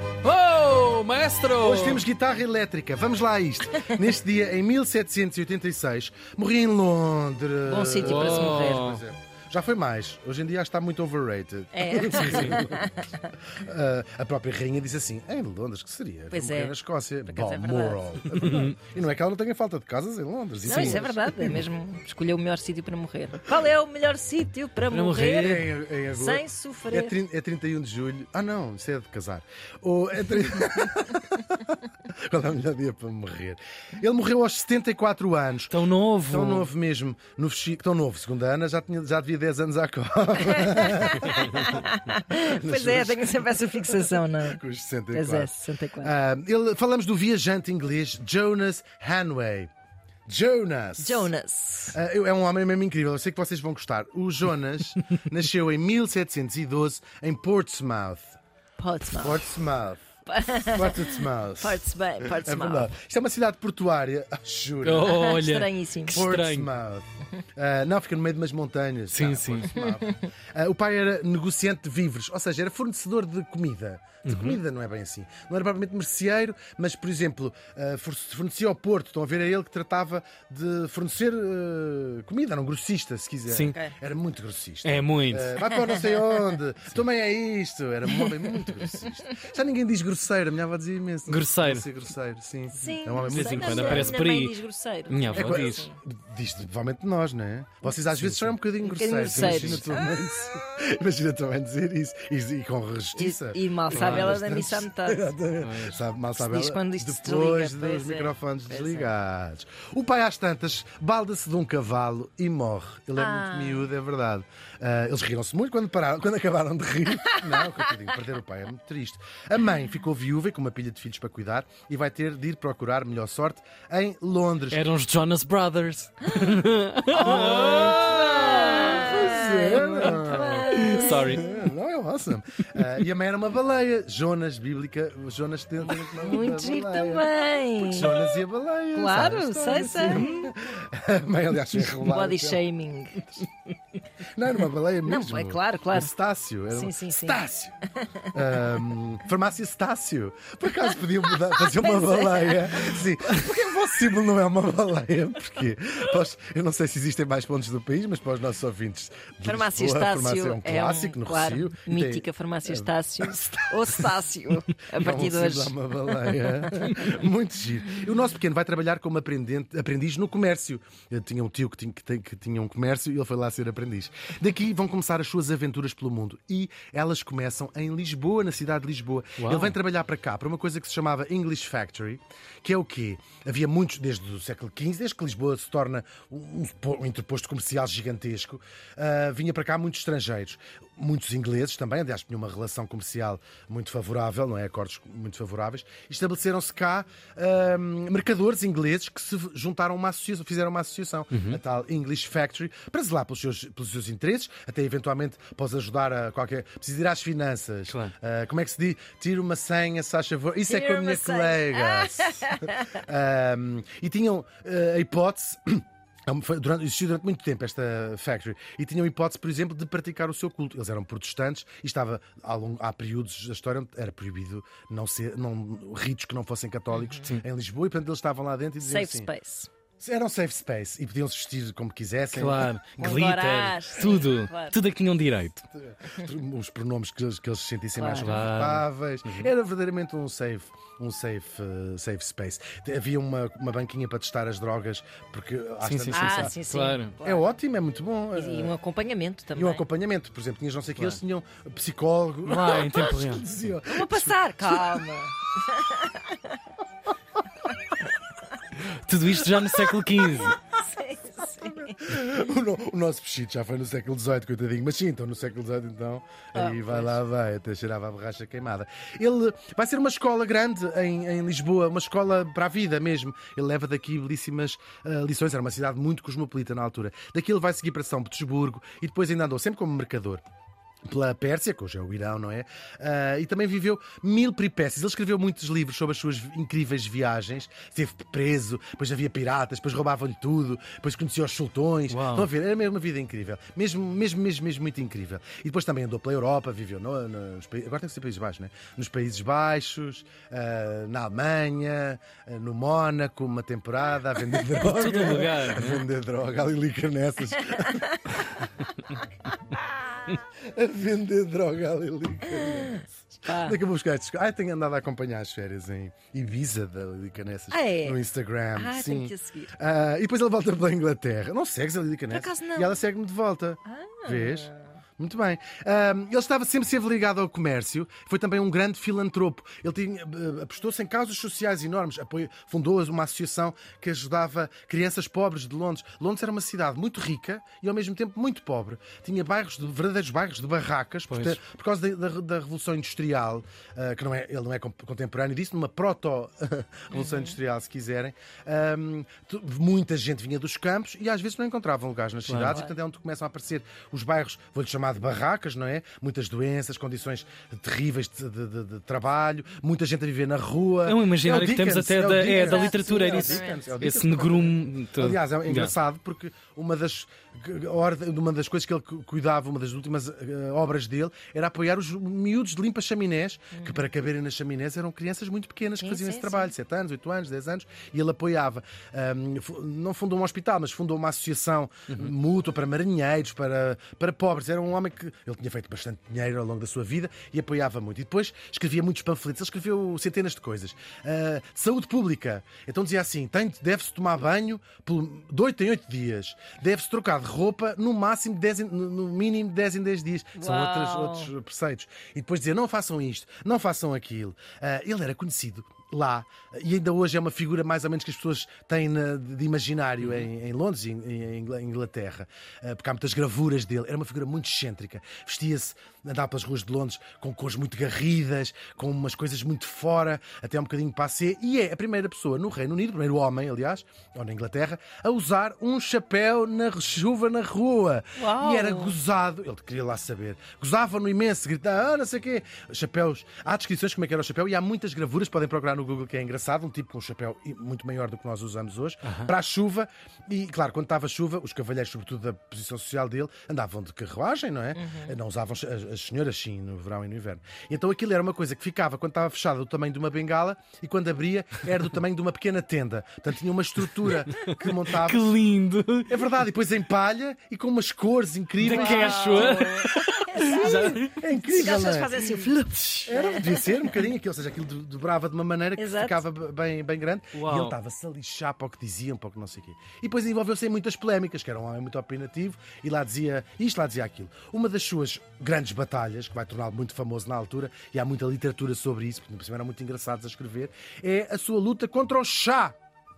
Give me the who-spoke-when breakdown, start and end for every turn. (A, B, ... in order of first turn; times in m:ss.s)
0:00.2-0:02.0 A
0:01.6-0:12.9 B
0:07.7-0:08.9 C
0:08.0-0:09.0 A
0:11.7-0:13.2 C
0:12.1-0:12.6 A
0:13.5-0:21.6 B
0:16.3-0:16.8 C
0:17.3-0:18.0 C
0:18.3-0:18.7 A
0:20.6-0:27.2 C
0:20.7-0:21.0 A
0:24.9-0:25.7 A
0:25.2-0:49.7 B
0:35.7-0:36.7 A
0:40.5-0:44.6 C
0:45.1-0:46.1 C
0:50.3-0:51.3 B
0:51.0-0:52.0 C
0:51.9-0:58.4 B
0:58.8-0:59.5 C
0:59.2-1:00.0 B
1:00.3-1:02.9 C
1:00.7-1:05.2 B
1:04.8-1:06.7 A
1:05.0-1:06.2 C
1:06.1-1:34.2 B
1:09.1-1:09.7 A
1:09.7-1:10.2 C
1:14.2-1:14.6 A
1:23.5-1:23.8 A
1:24.8-1:25.6 A
1:31.3-1:31.9 A
1:32.7-1:36.0 C
1:33.2-1:34.6 A
1:35.1-1:35.8 A
1:35.3-2:04.9 B
1:38.1-1:38.6 A
1:38.8-1:40.1 C
1:39.3-1:40.0 A
1:43.2-1:45.3 C
1:43.9-1:44.4 A
1:45.6-1:46.0 A
1:46.4-1:49.1 C
1:53.2-1:53.9 C
2:04.7-2:11.6 A
2:07.1-2:11.4 C
2:07.2-2:07.6 B
2:08.8-2:22.6 B
2:15.9-2:18.1 C
2:19.0-2:20.5 C
2:20.1-2:20.5 A
2:22.0-2:23.2 C
2:24.3-2:44.1 B
2:25.0-2:26.1 C
2:26.7-2:27.4 C
2:28.0-2:28.3 C
2:31.6-2:33.0 C
2:39.4-2:47.2 C
2:45.0-3:49.3 B
2:59.4-2:59.8 A
3:21.3-3:21.6 A
3:27.9-3:28.1 A
3:30.7-3:32.8 C
3:46.9-3:47.3 C
3:48.8-3:49.7 C
3:50.0-3:53.2 B
3:52.3-3:55.6 A
3:53.0-3:54.8 C
3:55.7-4:06.5 B
3:58.0-3:58.4 C
3:58.2-3:59.5 A
4:05.8-4:07.1 A
4:06.1-4:07.5 C
4:07.2-4:08.8 B
4:08.4-4:09.8 C
4:09.5-4:15.1 B
4:11.0-4:11.2 A
4:12.5-4:13.5 A
4:13.9-4:16.4 C
4:18.8-4:20.6 A
4:20.2-4:22.0 C
4:21.5-4:40.4 B
4:26.6-4:27.2 C
4:41.0-5:08.5 B
4:52.1-4:52.5 A
5:04.8-5:06.0 A
5:10.4-7:35.5 B
5:13.5-5:13.8 C
5:17.7-5:18.2 C
5:18.7-5:19.8 C
5:22.3-5:23.0 C
5:23.9-5:25.0 C
5:41.3-5:41.6 A
5:47.1-5:47.6 C
5:52.5-5:52.8 A
5:52.6-5:53.0 C
6:01.0-6:06.0 A
6:02.5-6:04.0 C
6:13.7-6:14.1 C
6:16.0-6:16.7 C
6:40.6-6:41.5 C
6:50.2-6:50.5 A
7:08.4-7:09.2 C
7:19.2-7:19.5 A
7:25.0-7:25.4 C
7:34.5-7:36.4 A
7:36.3-7:39.9 B
7:38.8-7:41.4 A
7:38.8-7:44.0 C
7:40.5-7:42.4 B
7:42.5-7:43.3 A
7:43.3-8:03.0 B
7:46.0-7:46.4 C
7:47.6-7:48.0 A